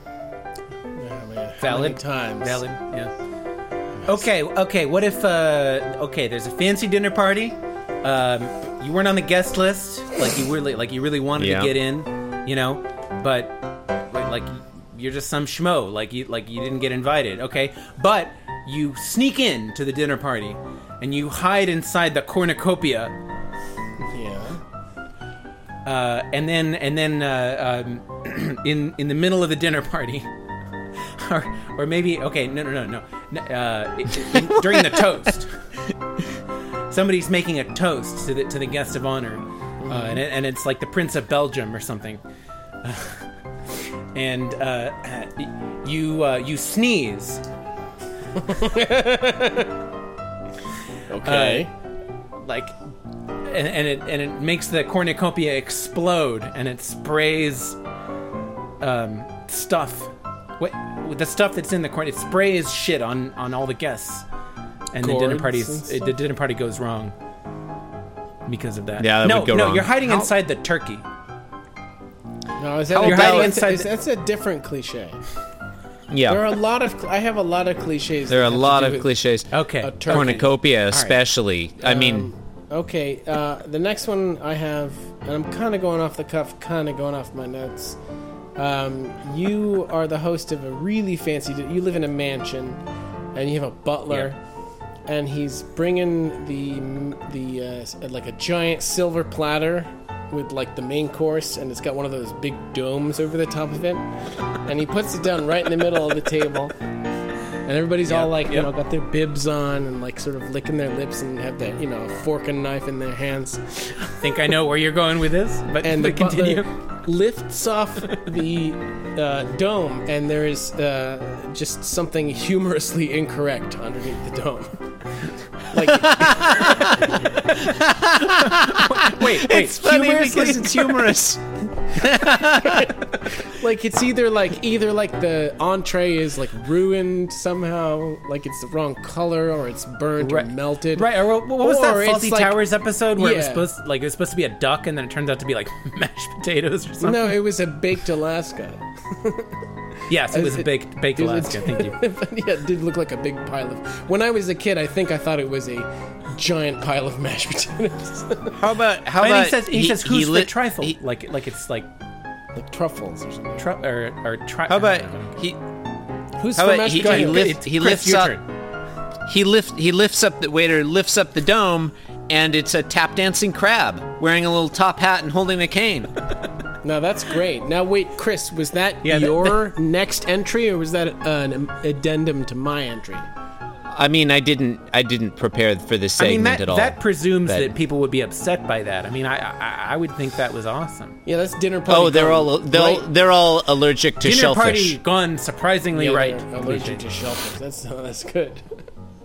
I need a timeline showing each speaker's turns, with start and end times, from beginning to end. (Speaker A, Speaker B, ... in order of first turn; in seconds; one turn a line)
Speaker A: 1.0-2.6
Speaker B: 1.6-3.1
Speaker B: 4.1-13.6
Speaker C: 11.4-11.8
Speaker B: 14.1-23.1
Speaker A: 24.1-24.6
Speaker B: 25.8-30.3
Speaker B: 31.2-35.5
Speaker C: 34.2-35.0
Speaker B: 36.9-42.2
Speaker A: 39.8-40.2
Speaker B: 42.8-43.2
Speaker B: 44.1-47.4
Speaker A: 48.4-49.7
Speaker A: 51.1-51.7
Speaker B: 51.2-51.7
Speaker B: 52.4-52.8
Speaker B: 53.5-57.8
Speaker B: 58.8-64.2
Speaker B: 64.9-67.1
Speaker A: 65.0-66.1
Speaker B: 68.5-71.0
Speaker C: 69.0-70.3
Speaker A: 72.6-75.2
Speaker C: 72.9-73.6
Speaker B: 73.0-73.9
Speaker C: 76.1-76.5
Speaker A: 76.3-79.1
Speaker C: 78.3-82.3
Speaker B: 79.5-81.2
Speaker A: 79.8-80.5
Speaker A: 81.8-88.0
Speaker A: 88.6-92.8
Speaker A: 93.3-94.4
Speaker A: 95.1-104.1
Speaker A: 104.6-106.8
Speaker A: 107.7-114.0
Speaker B: 108.1-108.7
Speaker B: 114.2-116.7
Speaker A: 115.8-124.8
Speaker A: 125.7-126.8
Speaker C: 125.9-132.9
Speaker B: 128.2-131.1
Speaker A: 132.6-142.6
Speaker B: 140.2-147.4
Speaker A: 143.2-143.7
Speaker A: 147.0-149.5
Speaker B: 150.1-152.0
Speaker A: 150.3-158.6
Speaker C: 158.5-161.0
Speaker B: 159.2-161.9
Speaker A: 162.5-163.7
Speaker B: 163.6-165.2
Speaker C: 164.7-165.6
Speaker A: 166.4-167.5
Speaker C: 166.5-168.4
Speaker B: 167.0-168.4
Speaker C: 169.2-176.1
Speaker A: 176.8-183.3
Speaker B: 179.0-179.6
Speaker C: 183.9-187.8
Speaker B: 186.2-191.2
Speaker A: 191.2-193.1
Speaker C: 191.9-195.0
Speaker B: 194.2-197.0
Speaker A: 195.9-198.8